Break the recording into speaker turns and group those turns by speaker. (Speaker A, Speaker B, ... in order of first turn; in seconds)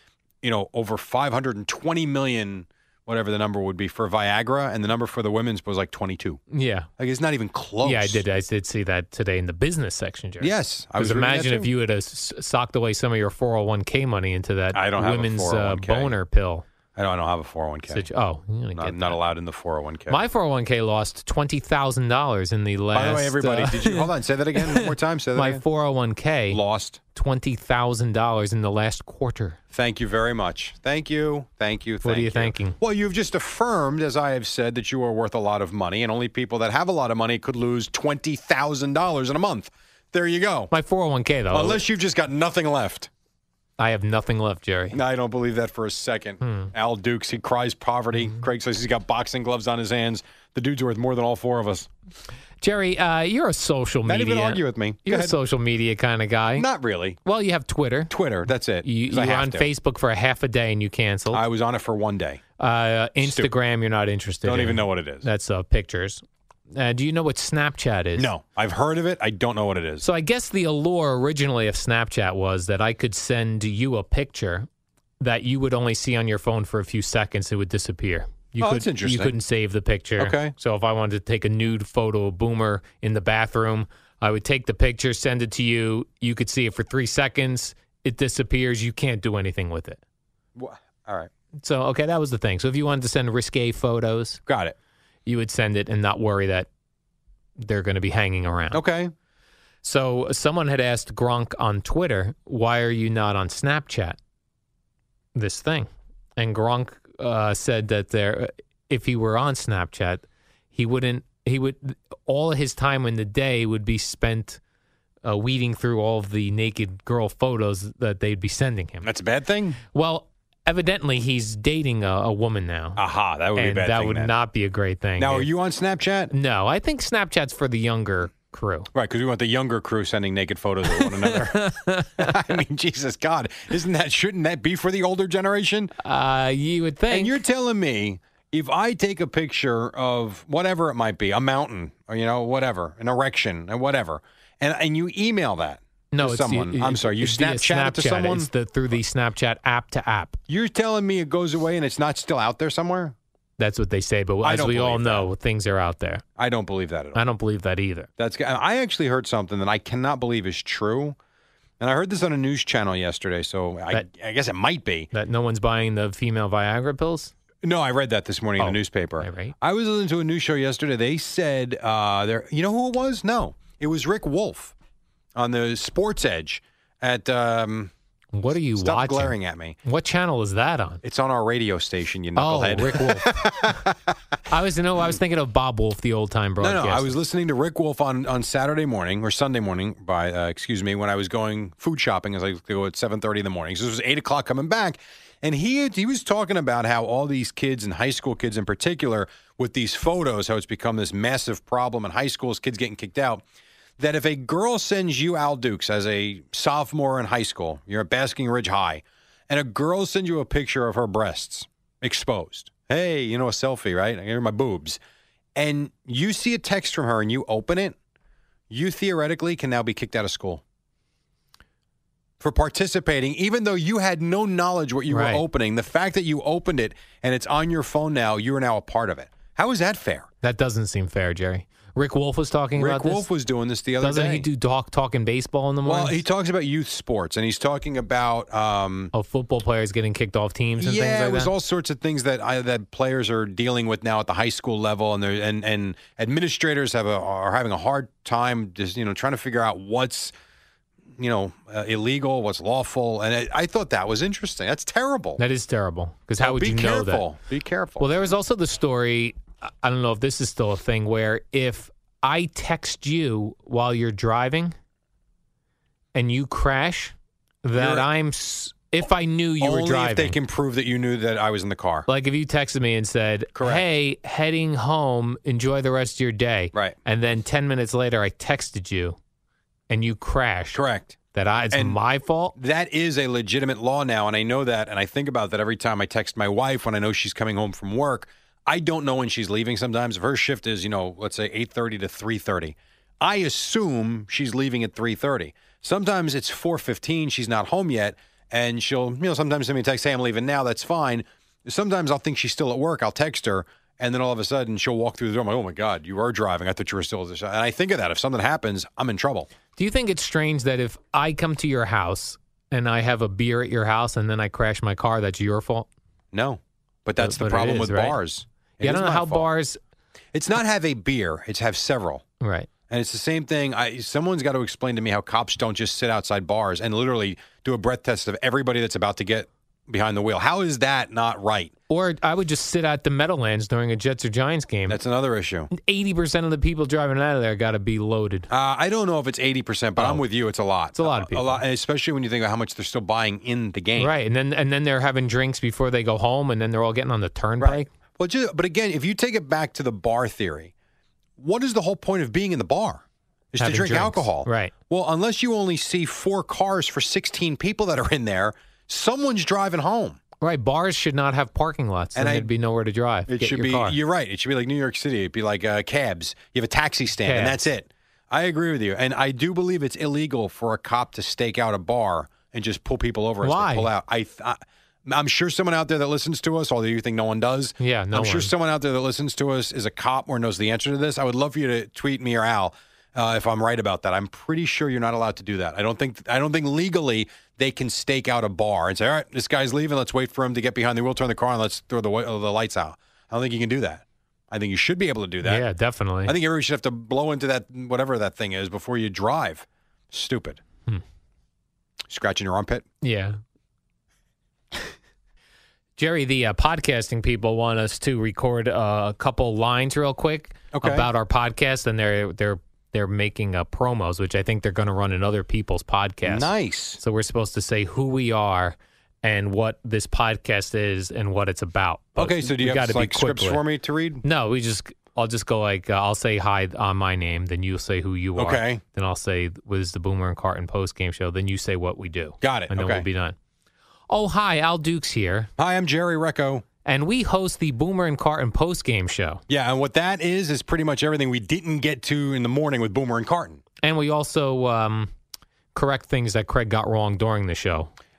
Speaker A: 0.4-6.4, 7.0-8.2, 10.4-11.7, 14.7-16.1, 16.9-18.1, 18.7-20.2, 22.9-25.6, 26.5-27.0, 29.7-40.7, 41.5-43.1, 44.9-51.9, 54.0-55.4, 56.6-57.2, 58.1-59.7, 61.3-62.4, 63.2-63.5, 64.4-65.3, 68.2-70.0, 78.6-79.3, 80.2-80.5, 90.5-91.3, 94.5-94.8, 98.7-99.1, 119.0-119.8, 123.0-124.3, 125.2-126.3, 128.9-135.9, 137.1-148.5, 150.5-153.1, 154.4-155.3, 156.4-157.2, 158.2-161.2, 161.8-165.1, 167.6-174.7, 175.3-177.9, 178.8-179.8, 181.0-184.1, 186.6-203.4, 204.0-215.0, 215.6-217.9, 218.7-220.6, 222.4-230.3, 232.8-234.5, 235.8-239.1, 240.8-250.3, 251.2-255.4, 256.4-258.1, 267.8-268.1, 269.6-272.1, 273.6-273.8, 280.7-281.1, 281.7-282.0, 282.6-309.5, 316.3-319.4, 320.3-322.2, 322.9-331.7, 334.9-335.7, 338.5-344.1, 347.6-350.7, 351.4-360.2, 362.1-362.5, 363.3-395.6, 396.2-400.6, 402.1-402.8, 410.7-411.1, 416.2-417.0, 422.2-424.2, 428.4-428.8, 432.4-433.1, 435.6-436.6, 439.5-443.6
Speaker B: 6.5-6.9, 7.8-16.6, 17.9-19.2, 20.1-24.1, 24.6-26.6, 27.1-29.6, 32.0-32.8, 40.7-41.8, 43.8-45.0, 46.4-46.7, 48.2-48.4, 52.6-56.7, 57.2-58.1, 58.8-61.4, 62.6-68.3, 70.0-74.7, 75.2-90.0, 91.6-94.4, 95.2-96.7, 97.6-98.8, 99.8-104.2, 105.3-114.6, 115.2-119.1, 119.8-123.0, 123.5-125.5, 126.3-128.9, 130.9-132.4, 136.0-137.4, 146.1-150.4, 153.6-156.2, 157.1-158.1, 165.1-167.3, 168.6-169.5, 178.3-181.0, 182.3-183.8, 184.5-187.1, 225.1-225.4, 230.4-233.2, 234.0-236.2, 239.1-241.5, 255.4-257.2, 258.0-264.7, 266.1-270.4, 272.1-279.2, 279.9-280.8, 281.3-282.6, 309.8-315.9, 317.2-318.1, 318.8-319.8, 322.4-322.7, 331.9-335.0, 335.7-338.5, 340.0-340.2, 340.9-341.6, 344.0-347.9, 353.6-354.7, 360.4-364.0, 367.2-367.6, 373.4-373.9, 377.8-378.5, 395.4-396.3, 403.0-403.4, 406.0-423.6, 424.2-433.4, 434.1-435.5, 436.8-439.4, 443.8-445.1, 445.7-447.9